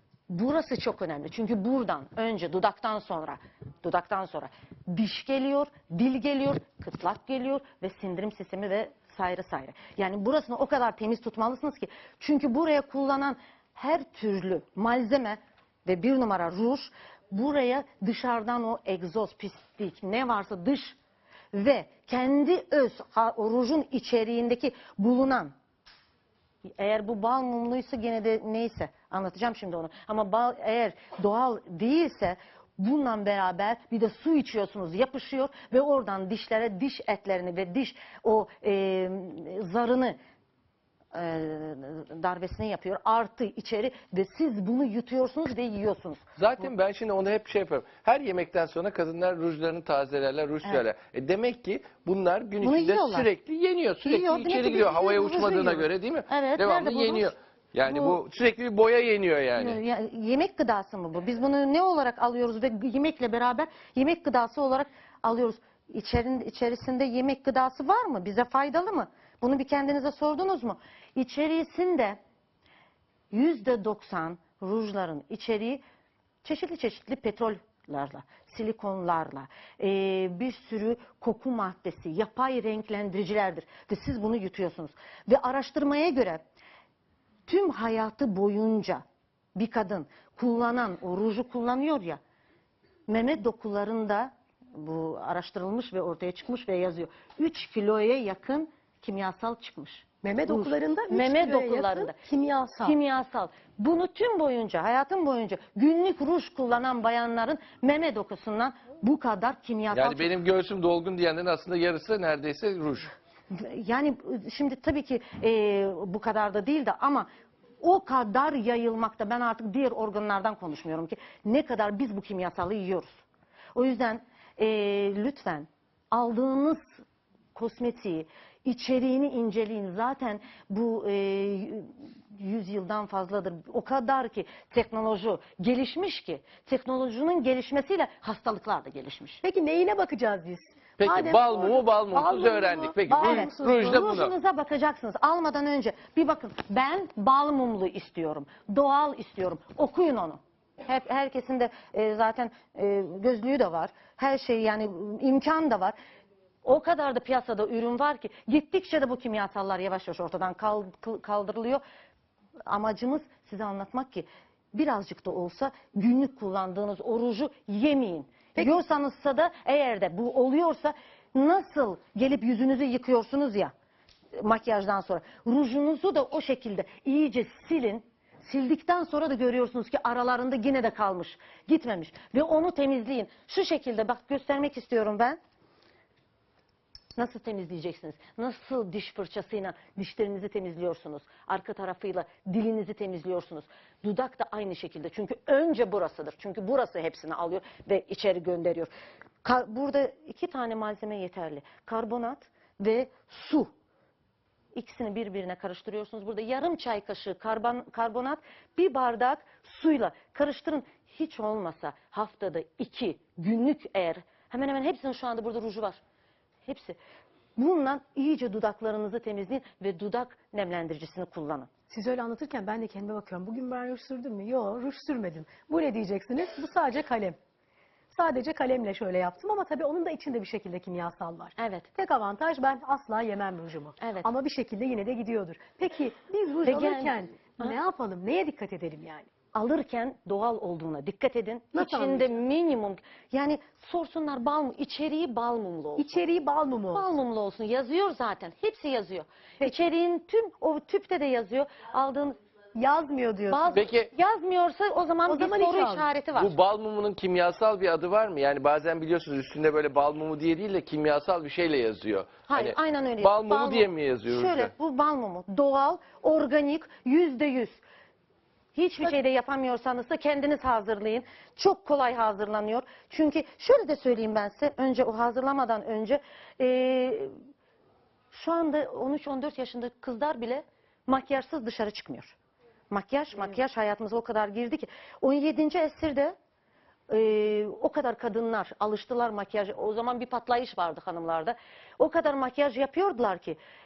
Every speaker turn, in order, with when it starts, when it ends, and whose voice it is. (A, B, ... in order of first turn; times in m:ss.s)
0:00.3-0:21.0 A
0:21.5-0:25.5 A
0:26.8-0:40.2 A
0:41.1-0:46.2 A
0:46.4-0:59.8 B
0:52.6-0:53.3 A
0:54.0-0:57.3 A
0:57.9-0:58.2 A
0:59.5-1:12.2 A
1:13.3-1:15.8 A
1:16.4-1:26.4 A
1:27.5-1:29.0 A
1:29.6-1:32.2 A
1:33.1-1:42.1 A
1:40.2-1:43.0 C
1:42.8-1:50.3 A
1:49.9-1:53.1 B
1:53.5-1:57.3 A
1:57.8-2:03.2 A
2:03.7-2:06.8 A
2:07.5-2:19.4 A
2:19.4-2:24.2 C
2:21.0-2:24.3 B
2:23.2-2:35.9 A
2:36.6-2:41.8 A
2:42.7-2:53.7 A
2:48.6-2:48.8 C
2:54.3-3:05.4 A
3:07.2-3:18.9 A
3:19.4-3:23.7 A
3:24.7-3:36.0 A
3:36.6-3:37.0 A
3:37.6-3:41.7 A
3:41.9-3:47.4 C
3:48.1-3:59.3 C
3:51.6-3:51.9 A
3:54.0-3:54.3 A
3:56.6-3:57.8 A
3:59.5-4:06.2 A
4:01.7-4:02.3 C
4:06.0-4:07.1 C
4:06.9-4:12.4 A
4:12.8-4:13.8 C
4:13.5-4:16.5 A
4:13.7-4:14.1 B
4:15.3-4:16.1 C
4:16.3-4:24.7 B
4:22.5-4:27.8 A
4:28.7-4:37.3 A
4:38.3-4:42.3 A
4:42.9-4:46.3 A
4:47.1-4:53.6 A